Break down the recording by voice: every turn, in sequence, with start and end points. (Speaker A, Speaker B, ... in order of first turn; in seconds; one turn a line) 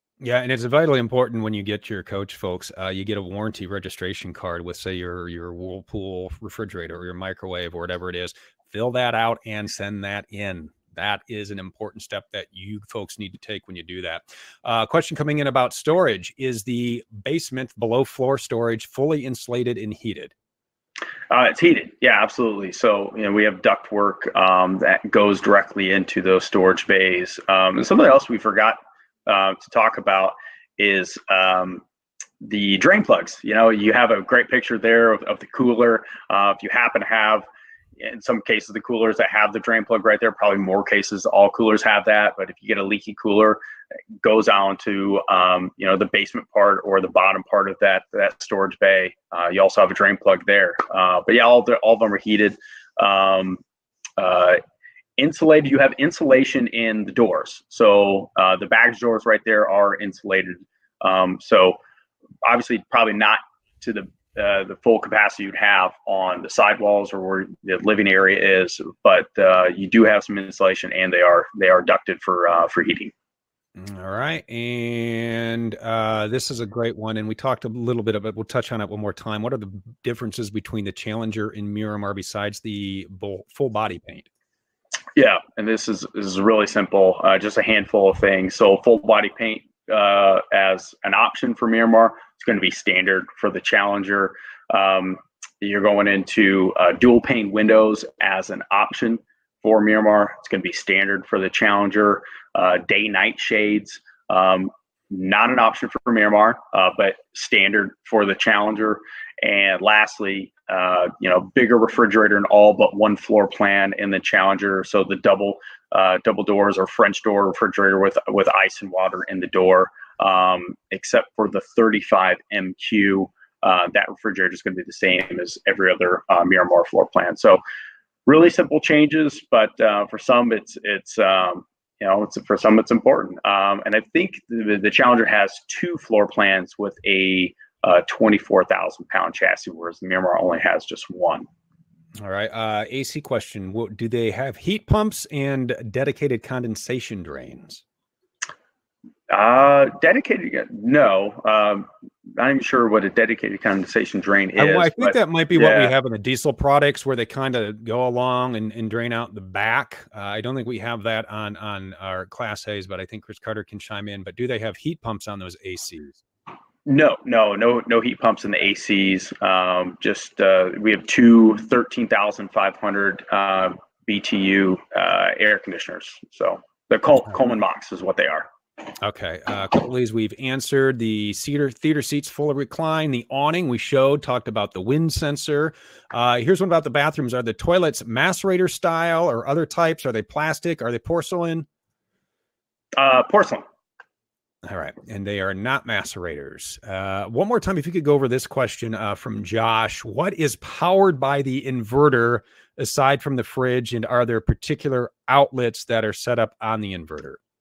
Speaker A: 0.2-20.3
Speaker B: 21.3-31.8
Speaker B: 32.4-37.5
Speaker B: 38.0-43.6
Speaker B: 44.2-53.6
Speaker B: 54.2-54.6
Speaker B: 55.2-61.8
Speaker B: 62.4-73.1
Speaker A: 73.8-84.3
Speaker B: 85.2-127.6
Speaker B: 128.3-141.5
Speaker A: 142.2-147.8
Speaker B: 149.3-155.9
Speaker A: 154.6-166.2
Speaker B: 166.9-178.5
Speaker A: 179.0-191.7
Speaker B: 193.0-193.7
Speaker A: 194.6-207.4